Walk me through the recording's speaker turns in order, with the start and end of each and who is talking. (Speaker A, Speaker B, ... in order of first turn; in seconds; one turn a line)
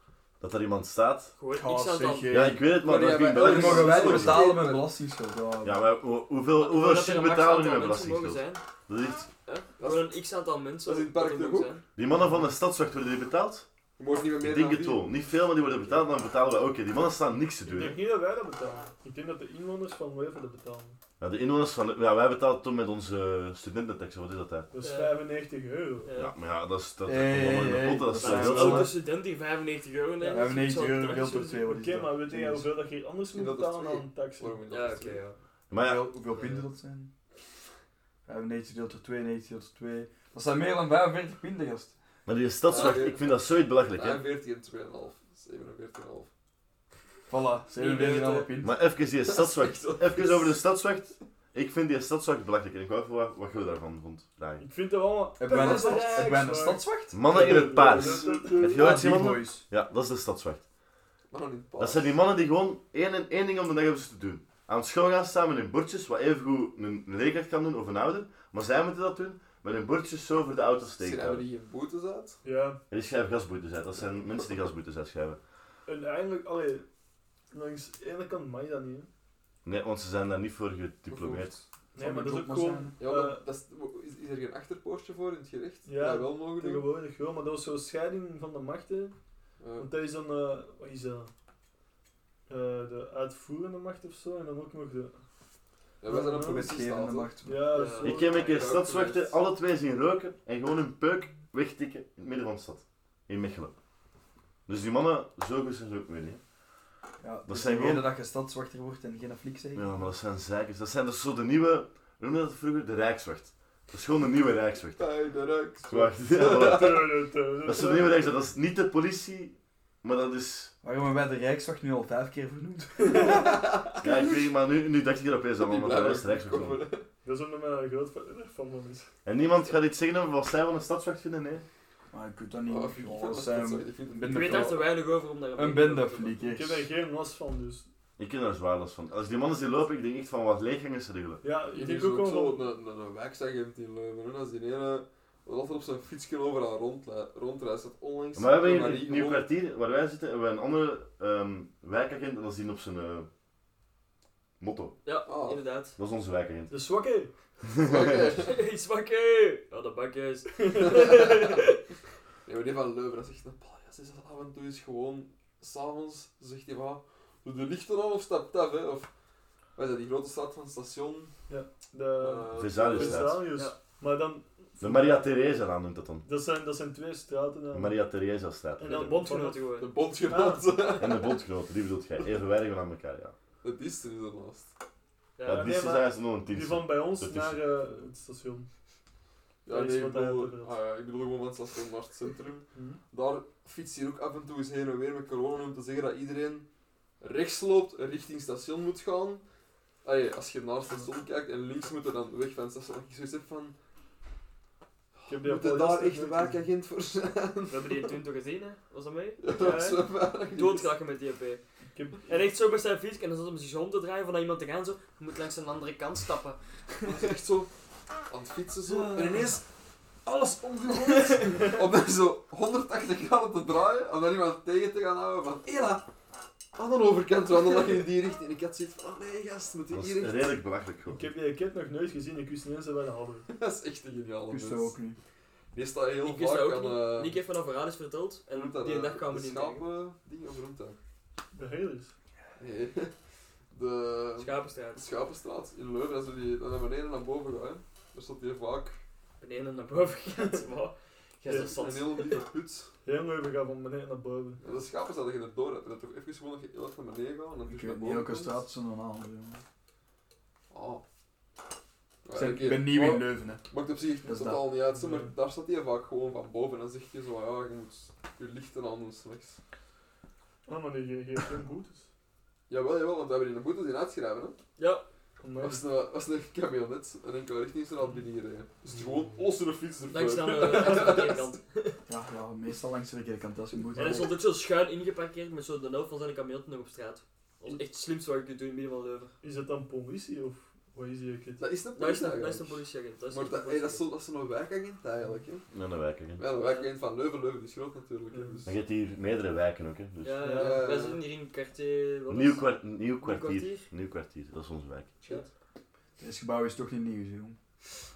Speaker A: 0.4-1.3
Speaker B: 1.4-2.4
Speaker C: 1.5-2.7
Speaker A: 2.3-4.5
Speaker D: 2.8-4.9
Speaker C: 3.3-5.8
Speaker A: 5.6-9.3
Speaker B: 6.5-8.6
Speaker B: 9.4-11.8
Speaker D: 9.8-10.1
Speaker D: 10.8-11.8
Speaker A: 11.9-13.7
Speaker D: 14.0-15.1
Speaker A: 14.4-18.0
Speaker E: 17.6-21.0
Speaker A: 21.2-24.7
Speaker E: 24.7-26.1
Speaker B: 24.8-25.2
Speaker B: 26.0-26.3
Speaker A: 26.1-28.9
Speaker C: 27.1-28.9
Speaker B: 28.2-31.5
Speaker E: 30.2-34.6
Speaker C: 30.3-32.7
Speaker D: 33.3-35.2
Speaker B: 34.7-35.4
Speaker A: 35.7-36.0
Speaker C: 35.8-37.1
Speaker B: 36.3-36.6
Speaker C: 38.2-41.9
Speaker A: 42.2-44.2
Speaker D: 42.7-46.3
Speaker C: 47.3-48.8
Speaker B: 47.8-48.5
Speaker A: 48.6-54.7
Speaker D: 49.2-50.6
Speaker E: 54.6-59.0
Speaker C: 55.4-57.5
Speaker D: 55.5-56.3
Speaker B: 55.6-56.3
Speaker A: 57.1-60.6
Speaker D: 57.9-58.4
Speaker C: 58.6-59.6
Speaker D: 61.3-62.1
Speaker A: 61.8-71.5
Speaker D: 70.9-72.4
Speaker E: 72.4-72.8
Speaker A: 72.9-75.4
Speaker E: 75.8-76.8
Speaker E: 77.5-79.1
Speaker A: 79.6-81.5
Speaker D: 81.1-81.6
Speaker E: 81.9-83.4
Speaker C: 82.0-83.0
Speaker D: 83.0-86.9
Speaker E: 85.8-89.1
Speaker D: 89.6-89.9
Speaker E: 89.8-91.3
Speaker E: 92.5-95.2
Speaker D: 96.0-97.3
Speaker E: 96.1-96.7
Speaker C: 96.1-97.8
Speaker E: 97.4-98.5
Speaker B: 97.7-98.7
Speaker A: 98.0-103.7
Speaker D: 98.4-99.4
Speaker A: 104.7-106.4
Speaker C: 107.2-109.9
Speaker A: 107.5-108.1
Speaker A: 109.7-115.0
Speaker D: 115.0-117.0
Speaker A: 115.9-120.7
Speaker E: 116.4-118.3
Speaker C: 120.8-123.6
Speaker D: 123.0-124.3
Speaker A: 124.0-126.8
Speaker D: 125.6-127.1
Speaker E: 127.2-129.1
Speaker A: 129.2-131.7
Speaker C: 132.1-134.9
Speaker D: 132.7-134.8
Speaker B: 134.2-136.3
Speaker C: 135.6-136.9
Speaker E: 136.4-137.9
Speaker A: 138.2-141.4
Speaker E: 141.4-142.7
Speaker D: 141.7-149.5
Speaker A: 148.3-153.3
Speaker A: 154.6-155.0
Speaker B: 155.0-155.9
Speaker D: 155.2-155.6
Speaker A: 156.0-156.7
Speaker E: 156.7-157.3
Speaker A: 157.7-158.3
Speaker D: 157.8-158.5
Speaker B: 158.3-161.8
Speaker E: 160.6-161.2
Speaker D: 161.0-161.6
Speaker D: 162.4-169.1
Speaker D: 169.7-171.3
Speaker E: 171.5-175.3
Speaker D: 172.2-173.4
Speaker A: 172.5-173.4
Speaker B: 173.5-173.8
Speaker A: 174.8-176.2
Speaker E: 176.2-178.0
Speaker A: 177.7-179.0
Speaker E: 178.8-179.7
Speaker B: 178.8-179.9
Speaker D: 179.8-181.3
Speaker E: 180.2-180.9
Speaker A: 181.0-183.3
Speaker D: 183.6-184.7
Speaker B: 185.4-185.7
Speaker A: 185.4-187.6
Speaker E: 185.4-188.7
Speaker D: 189.6-196.7
Speaker E: 189.7-190.8
Speaker E: 192.7-193.0
Speaker D: 197.2-199.4
Speaker D: 200.0-203.8
Speaker D: 205.2-208.1
Speaker E: 205.3-206.7
Speaker B: 207.7-211.6
Speaker D: 209.4-210.9
Speaker E: 211.9-212.3
Speaker B: 212.2-217.2
Speaker D: 217.0-217.7
Speaker D: 218.3-219.7
Speaker B: 218.9-219.4
Speaker D: 220.2-226.0
Speaker B: 221.0-221.4
Speaker E: 221.4-221.8
Speaker D: 226.7-230.6
Speaker A: 229.9-231.2
Speaker E: 231.1-233.5
Speaker D: 233.5-234.9
Speaker C: 234.5-235.2
Speaker D: 235.7-237.4
Speaker B: 236.2-239.8
Speaker D: 238.5-241.0
Speaker E: 241.5-242.1
Speaker D: 242.6-243.1
Speaker D: 243.7-249.0
Speaker B: 244.4-245.1
Speaker B: 249.4-252.4
Speaker E: 251.4-251.7
Speaker D: 251.6-252.9
Speaker E: 253.0-254.6
Speaker D: 254.6-258.6
Speaker C: 257.6-259.6
Speaker D: 260.7-261.0
Speaker D: 262.2-269.6
Speaker C: 262.3-263.6
Speaker C: 264.2-264.7
Speaker E: 264.9-265.3
Speaker E: 270.6-272.1
Speaker D: 272.7-274.6
Speaker B: 274.8-275.0
Speaker E: 275.4-275.8
Speaker D: 275.6-281.5
Speaker E: 278.9-279.5
Speaker B: 280.1-282.0
Speaker C: 282.1-284.3
Speaker B: 283.9-289.3
Speaker E: 289.4-291.7
Speaker D: 291.6-295.6
Speaker B: 291.9-294.1
Speaker A: 295.7-296.4
Speaker D: 296.4-298.8
Speaker B: 296.5-296.9
Speaker E: 298.3-298.6
Speaker A: 298.6-300.5
Speaker B: 300.2-302.7
Speaker E: 300.4-300.9
Speaker D: 300.5-301.2
Speaker A: 302.3-305.1
Speaker B: 303.2-303.9
Speaker C: 306.2-307.6